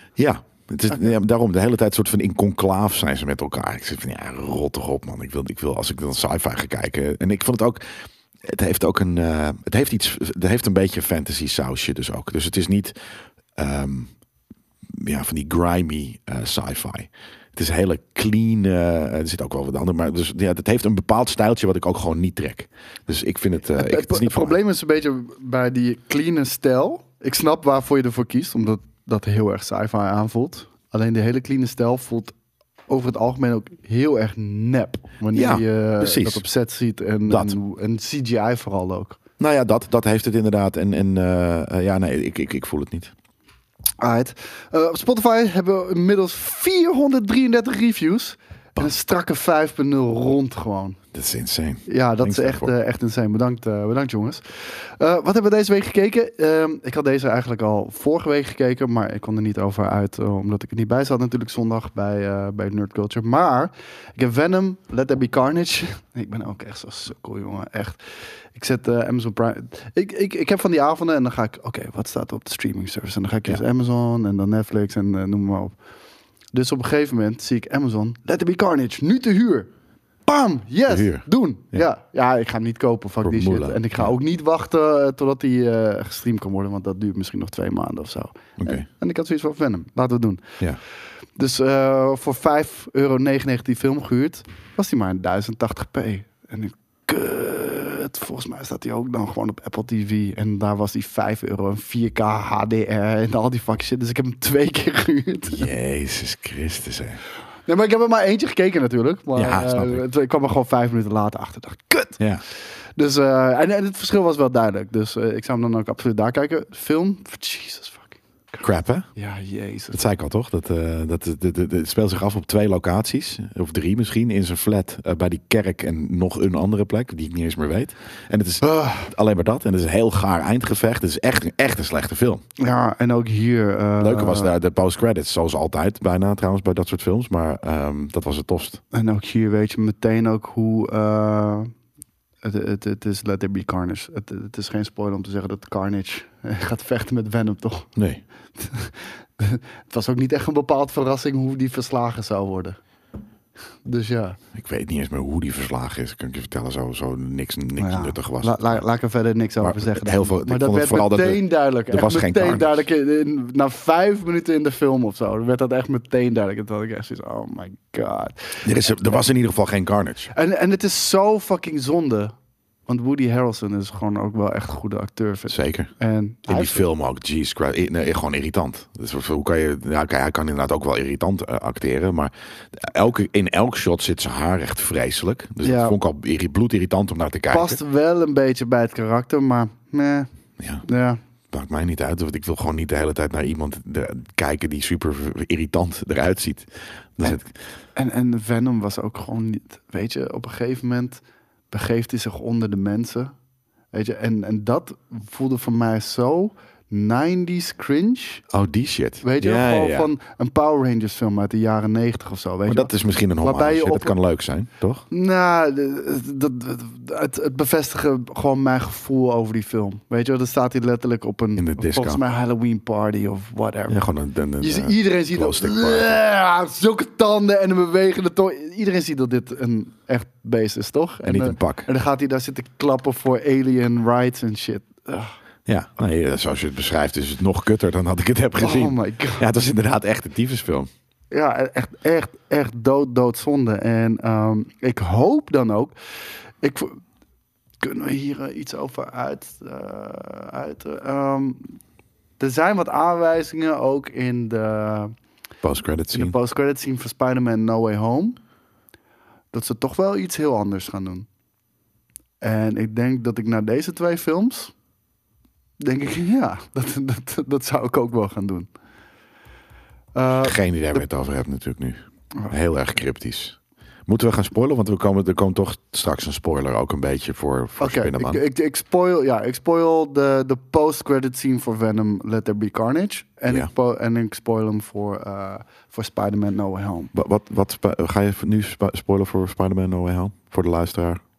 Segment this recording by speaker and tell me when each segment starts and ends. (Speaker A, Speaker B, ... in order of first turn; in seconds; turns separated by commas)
Speaker A: 0.2-14.1, Speaker A: 14.9-24.6, Speaker B: 23.8-32.3, Speaker B: 32.9-39.2, Speaker A: 35.3-36.4, Speaker A: 37.3-37.6, Speaker A: 39.4-43.1, Speaker B: 44.0-51.0, Speaker A: 51.1-52.7, Speaker B: 51.9-68.0, Speaker B: 68.5-75.8, Speaker B: 76.5-79.7, Speaker B: 80.3-90.6, Speaker A: 80.9-81.8, Speaker A: 83.2-84.1, Speaker A: 88.6-88.8, Speaker B: 91.4-105.7, Speaker A: 105.5-107.2, Speaker B: 107.7-112.2, Speaker A: 109.3-110.0, Speaker B: 113.0-118.6, Speaker A: 118.6-119.1, Speaker B: 119.2-120.0, Speaker A: 119.9-132.4, Speaker B: 128.6-129.1, Speaker B: 132.6-134.5, Speaker A: 134.0-138.8, Speaker B: 138.9-141.7, Speaker B: 142.4-147.9, Speaker A: 148.0-148.2, Speaker B: 148.6-152.8, Speaker B: 153.8-154.4, Speaker A: 154.5-158.8, Speaker B: 157.8-169.2, Speaker A: 159.6-162.8, Speaker A: 168.6-170.3, Speaker B: 170.3-172.3, Speaker B: 172.9-176.8, Speaker A: 175.5-175.9, Speaker A: 176.5-187.8, Speaker B: 185.6-186.0, Speaker B: 187.5-190.3, Speaker A: 190.6-190.8, Speaker B: 190.8-191.2, Speaker A: 191.5-197.5, Speaker B: 198.0-203.3, Speaker B: 203.9-208.4, Speaker A: 208.5-210.1, Speaker B: 209.2-214.2, Speaker A: 212.7-215.1, Speaker B: 215.1-224.0, Speaker A: 221.6-222.2, Speaker A: 223.9-226.2, Speaker B: 224.6-235.3, Speaker A: 231.2-231.9, Speaker A: 235.7-240.9, Speaker B: 238.6-239.5, Speaker B: 241.3-245.9, Speaker B: 246.6-247.0, Speaker B: 247.8-251.8, Speaker B: 252.4-255.1, Speaker A: 255.6-256.4, Speaker B: 256.1-258.4, Speaker B: 259.5-261.3, Speaker B: 262.4-264.7, Speaker B: 265.8-268.7, Speaker B: 270.1-271.0, Speaker A: 270.3-278.4, Speaker B: 277.8-287.1, Speaker A: 287.1-291.2